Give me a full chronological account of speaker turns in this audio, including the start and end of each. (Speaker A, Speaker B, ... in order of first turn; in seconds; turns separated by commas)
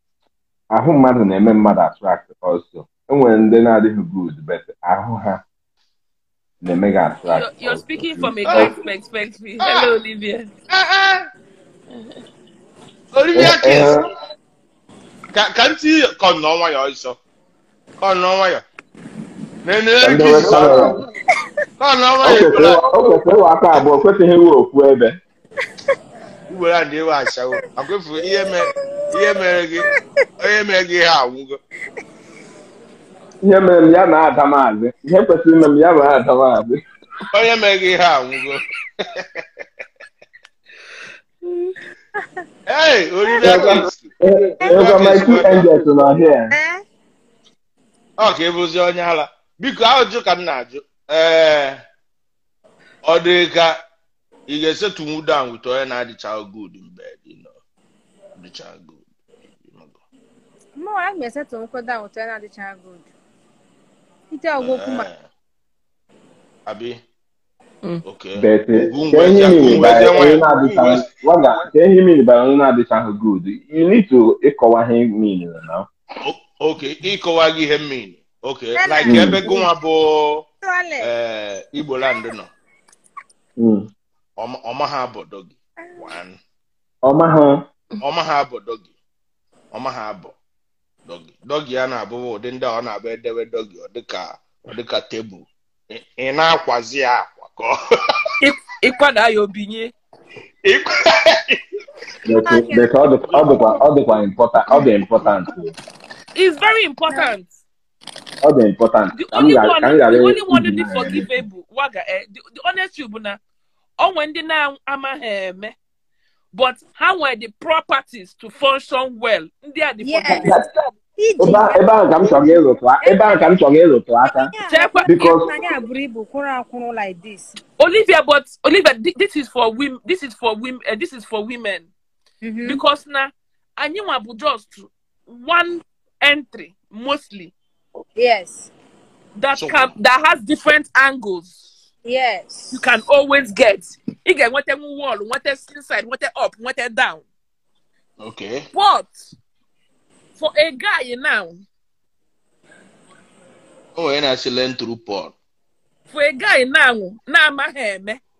Speaker A: 0.7-5.4, Speaker A: 6.6-8.7, Speaker B: 7.3-10.5, Speaker C: 9.6-9.9, Speaker C: 10.7-11.3, Speaker C: 13.1-14.0, Speaker A: 13.3-14.0, Speaker C: 15.3-17.2, Speaker C: 18.0-18.6, Speaker C: 19.6-21.0, Speaker A: 20.0-21.0, Speaker C: 21.8-22.9, Speaker A: 22.2-25.2, Speaker C: 26.5-31.6, Speaker A: 33.4-36.8, Speaker C: 37.3-39.4, Speaker C: 42.7-45.7, Speaker A: 43.4-46.5, Speaker D: 46.5-46.8, Speaker C: 48.2-51.8, Speaker C: 53.0-53.8, Speaker C: 54.5-57.5, Speaker C: 58.4-59.1, Speaker C: 59.6-60.0, Speaker D: 60.8-63.0, Speaker D: 64.3-65.1, Speaker C: 64.6-65.3, Speaker C: 66.7-67.0, Speaker C: 68.0-71.1, Speaker A: 68.4-75.9, Speaker C: 76.2-80.4, Speaker D: 78.8-79.6, Speaker A: 79.1-79.4, Speaker D: 80.6-81.1, Speaker C: 81.0-82.5, Speaker A: 83.6-83.9, Speaker C: 84.4-86.4, Speaker A: 87.0-87.7, Speaker C: 88.0-88.9, Speaker C: 89.7-90.3, Speaker C: 91.0-97.8, Speaker B: 98.4-99.9, Speaker C: 100.6-101.6, Speaker A: 102.2-105.7, Speaker D: 102.4-102.9, Speaker C: 103.3-103.6, Speaker C: 104.9-105.3, Speaker B: 106.3-107.5, Speaker A: 108.4-111.3, Speaker B: 109.1-113.4, Speaker B: 114.0-115.7, Speaker B: 116.5-120.5, Speaker D: 120.0-120.5, Speaker A: 120.4-120.7, Speaker D: 121.2-122.4, Speaker A: 121.4-124.5, Speaker D: 123.0-123.3, Speaker D: 124.2-127.5, Speaker B: 124.7-125.1, Speaker A: 125.1-125.5, Speaker B: 127.8-131.9, Speaker D: 132.4-132.8, Speaker B: 132.6-137.5, Speaker D: 138.2-138.7, Speaker B: 139.3-141.7, Speaker C: 139.5-139.9, Speaker D: 142.0-142.8, Speaker B: 142.7-147.2, Speaker C: 148.2-148.7, Speaker B: 148.7-149.3, Speaker B: 150.4-151.6, Speaker C: 153.9-155.3, Speaker B: 156.1-158.2